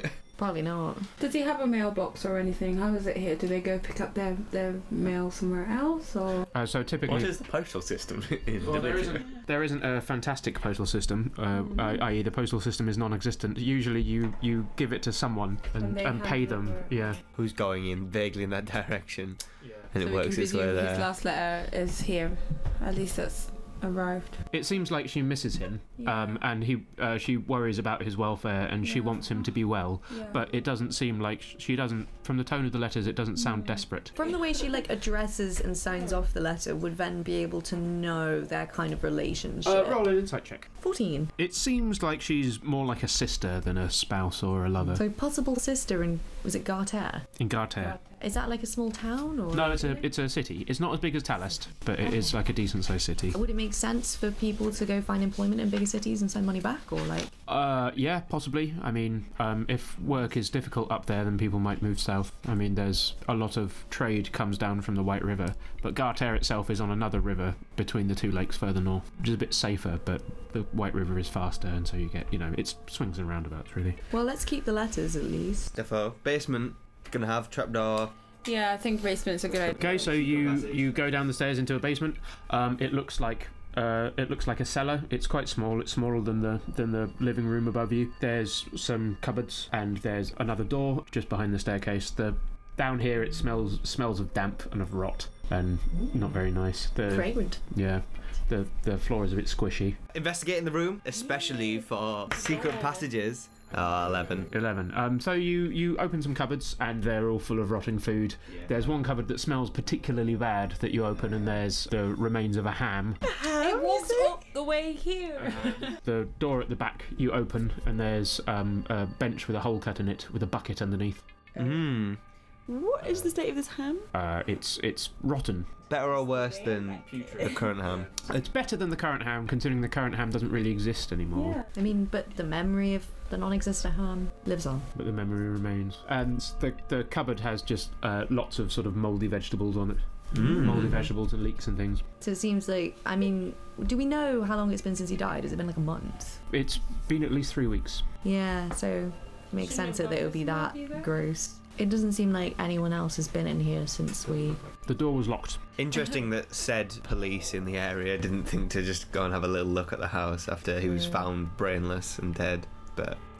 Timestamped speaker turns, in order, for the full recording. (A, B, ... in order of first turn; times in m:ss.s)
0:00.4-0:01.1 A
0:01.2-0:06.5 B
0:06.5-0:07.4 C
0:07.1-0:09.3 D
0:08.6-0:17.2 C
0:15.8-0:16.9 B
0:17.3-0:19.4 E
0:19.6-0:19.9 C
0:19.9-0:21.1 E
0:20.0-0:24.4 B
0:24.5-0:34.1 C
0:26.0-0:26.4 B
0:28.8-0:29.4 B
0:30.1-0:30.4 B
0:34.1-0:40.2 A
0:39.6-0:40.7 C
0:40.8-0:41.3 A
0:41.4-0:45.0 C
0:44.9-0:47.3 A
0:47.4-0:48.0 C
0:48.2-0:50.1 A
0:49.5-0:53.4 C
0:53.3-0:57.3 A
0:57.5-1:14.0 C
1:14.1-1:15.7 A
1:15.7-1:18.1 E
1:18.4-1:20.1 B
1:19.6-1:21.1 E
1:19.8-1:40.0 C
1:37.1-1:37.6 A
1:40.1-1:44.5 E
1:41.3-1:41.6 B
1:42.4-1:42.9 F
1:42.6-1:43.0 B
1:44.5-1:53.2 C
1:53.2-1:54.5 F
1:53.6-1:56.0 B
1:55.4-2:01.2 C
2:01.6-2:02.2 E
2:02.7-2:04.1 F
2:04.1-2:05.7 C
2:05.9-2:08.1 E
2:06.0-2:07.3 B
2:07.1-2:08.1 D
2:08.3-2:11.6 C
2:11.3-2:11.7 B
2:11.7-2:14.9 A
2:14.9-2:22.0 C
2:20.3-2:21.1 E
2:22.2-2:26.4 A
2:26.5-2:28.0 C
2:28.2-2:34.6 A
2:29.6-2:31.1 B
2:34.8-2:35.6 C
2:35.8-2:43.2 E